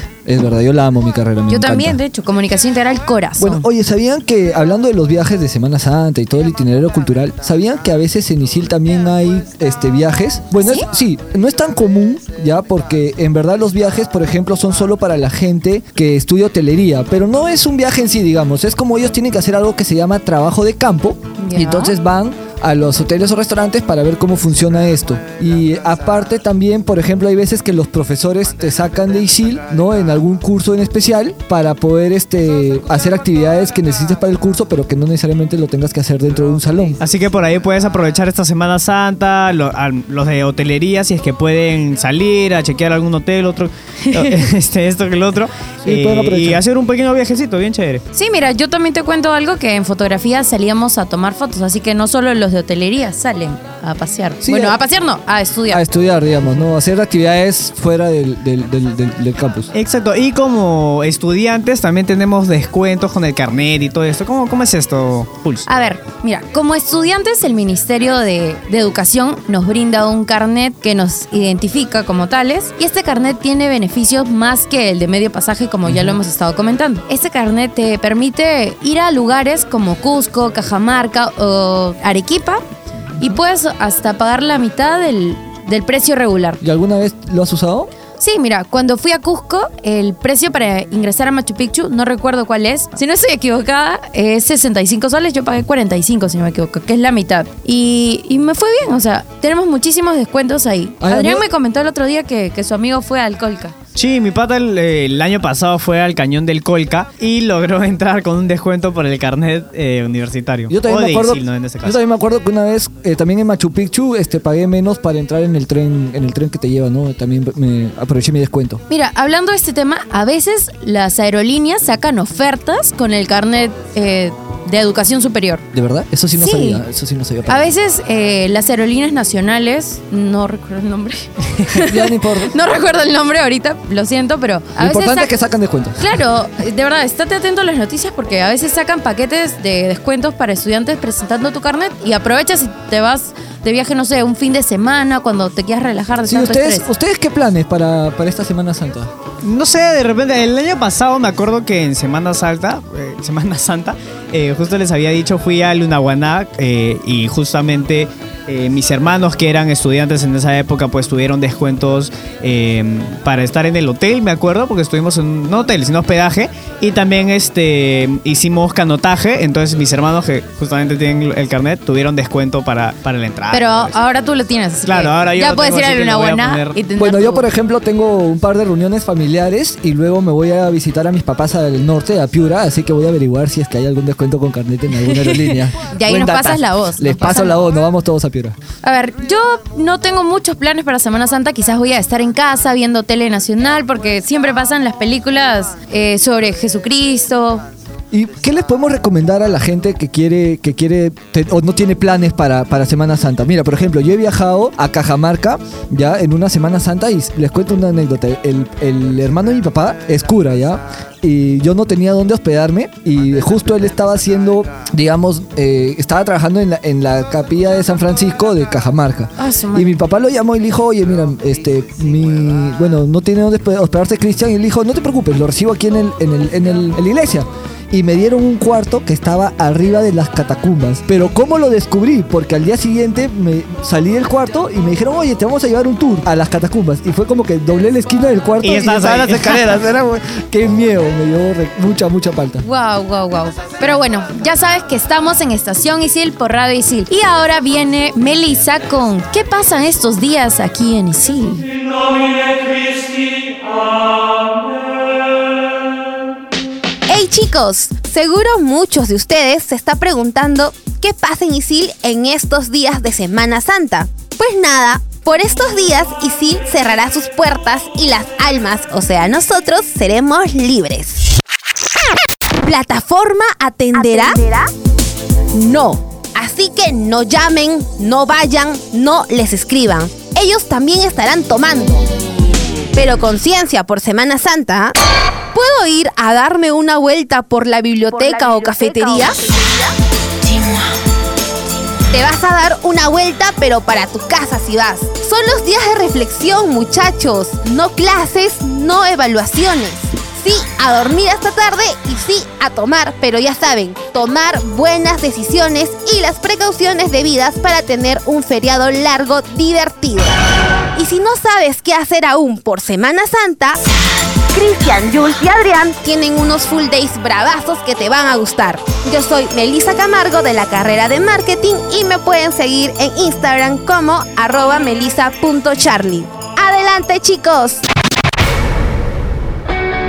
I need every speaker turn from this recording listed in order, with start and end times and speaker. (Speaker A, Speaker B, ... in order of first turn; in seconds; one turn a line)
Speaker A: 0.2-2.0
Speaker B: 1.5-3.7
Speaker A: 3.4-37.0
Speaker B: 10.6-10.9
Speaker B: 21.4-21.9
Speaker C: 37.0-48.0
Speaker B: 44.0-44.4
Speaker A: 45.8-46.6
Speaker B: 48.1-55.8
Speaker A: 54.4-54.8
Speaker A: 55.7-59.7
Speaker C: 59.7-65.7
Speaker B: 65.7-82.6
Speaker A: 75.9-76.2
Speaker B: 83.2-86.6
Speaker A: 86.6-87.9
Speaker B: 88.2-103.7
Speaker A: 101.0-101.5
Speaker C: 103.9-112.0
Speaker A: 110.7-118.8
Speaker B: 118.9-125.6
Speaker A: 125.7-127.7
Speaker B: 126.3-126.8
Speaker B: 127.5-135.4
Speaker A: 131.8-132.5
Speaker A: 134.8-136.1
Speaker B: 136.0-146.9
Speaker A: 146.2-149.1
Speaker C: 149.4-174.0
Speaker B: 173.5-177.5
Speaker C: 174.8-176.8
Speaker A: 177.0-188.6
Speaker B: 185.0-187.6
Speaker B: 188.8-197.6
Speaker A: 198.1-242.6
Speaker B: 219.4-219.9
Speaker C: 238.6-239.7
Speaker B: 242.6-251.7
Speaker D: 257.1-271.2
Speaker D: 272.6-274.6
Speaker D: 275.5-282.0
Speaker D: 282.9-284.9
Speaker D: 285.5-289.4
Speaker D: 292.1-310.4
Speaker D: 310.9-313.8
Speaker D: 314.5-327.8